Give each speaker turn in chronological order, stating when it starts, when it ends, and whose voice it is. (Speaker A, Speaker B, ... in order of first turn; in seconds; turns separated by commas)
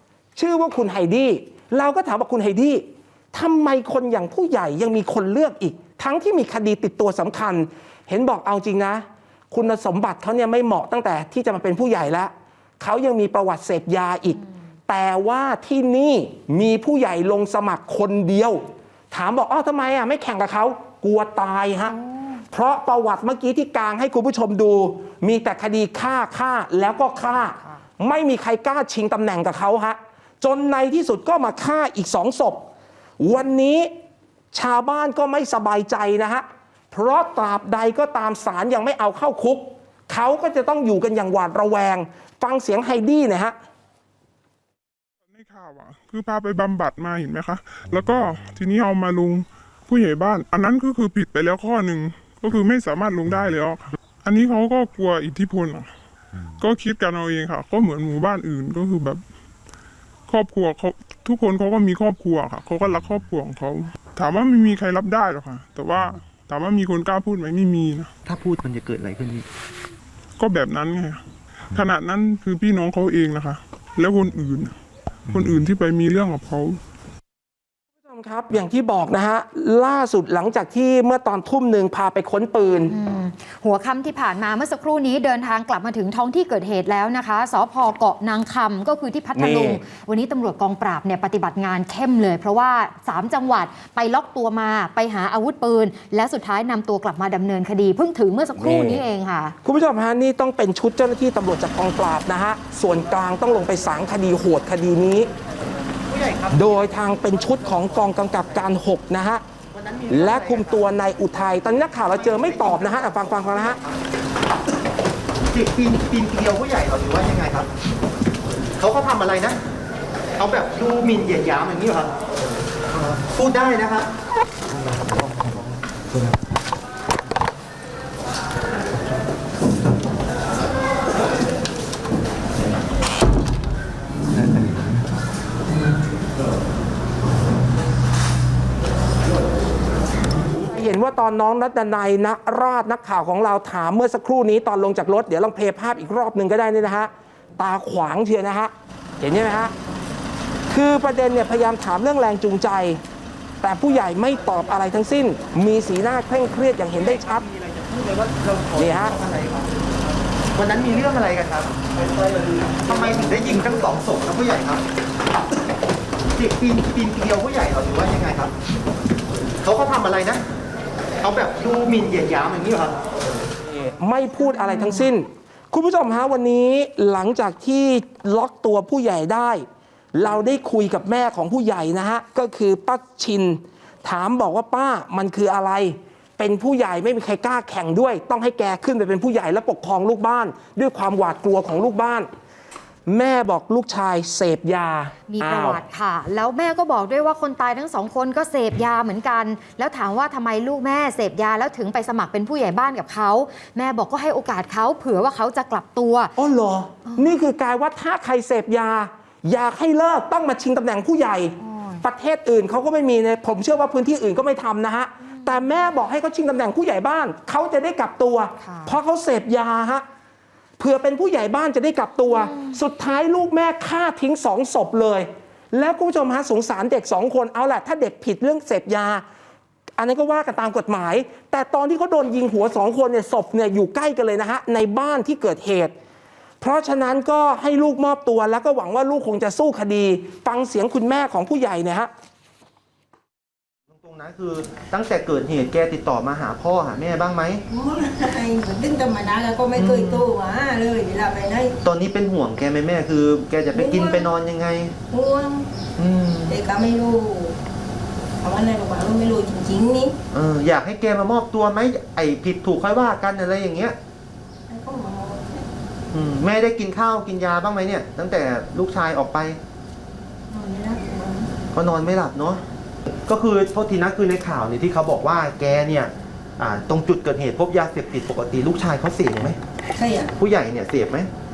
Speaker A: 0.3-21.9, Speaker B: 21.9-22.4, Speaker A: 22.5-32.6, Speaker A: 33.2-33.9, Speaker A: 34.5-43.5, Speaker C: 45.3-55.9, Speaker C: 56.6-59.2, Speaker C: 60.3-68.1, Speaker D: 68.2-69.5, Speaker C: 70.4-74.8, Speaker C: 75.3-76.8, Speaker A: 78.0-82.9, Speaker B: 82.9-99.5, Speaker A: 89.3-89.8, Speaker A: 98.6-99.0, Speaker A: 99.6-105.3, Speaker D: 106.1-106.6, Speaker A: 106.5-109.4, Speaker D: 109.7-110.8, Speaker A: 110.1-113.8, Speaker D: 112.1-114.0, Speaker D: 115.5-117.7, Speaker D: 118.8-119.6, Speaker D: 120.4-122.1, Speaker D: 122.9-124.1, Speaker A: 140.6-149.7, Speaker A: 150.7-153.0, Speaker A: 153.6-157.4, Speaker D: 157.0-159.7, Speaker A: 158.8-159.2, Speaker D: 160.5-161.7, Speaker D: 162.8-164.8, Speaker D: 166.3-168.5, Speaker D: 169.6-170.4, Speaker D: 171.2-172.9, Speaker A: 173.7-192.3, Speaker B: 174.4-175.0, Speaker A: 193.1-195.8, Speaker B: 195.3-206.3, Speaker A: 206.4-220.0, Speaker B: 207.1-207.3, Speaker B: 211.6-212.0, Speaker B: 215.3-215.8, Speaker B: 218.6-219.0, Speaker A: 220.8-229.2, Speaker B: 222.3-222.8, Speaker A: 230.0-235.9, Speaker A: 236.6-242.1, Speaker D: 243.9-247.6, Speaker E: 247.7-251.8, Speaker D: 249.7-250.3, Speaker D: 251.8-254.9, Speaker E: 253.8-254.2, Speaker E: 255.1-255.7, Speaker D: 256.0-256.6, Speaker E: 256.5-257.6, Speaker E: 258.4-260.1, Speaker D: 260.3-263.9, Speaker E: 264.7-265.6, Speaker D: 266.1-269.6, Speaker E: 270.5-271.5, Speaker D: 271.7-272.6, Speaker D: 273.3-279.6, Speaker E: 280.0-280.3, Speaker D: 280.4-281.3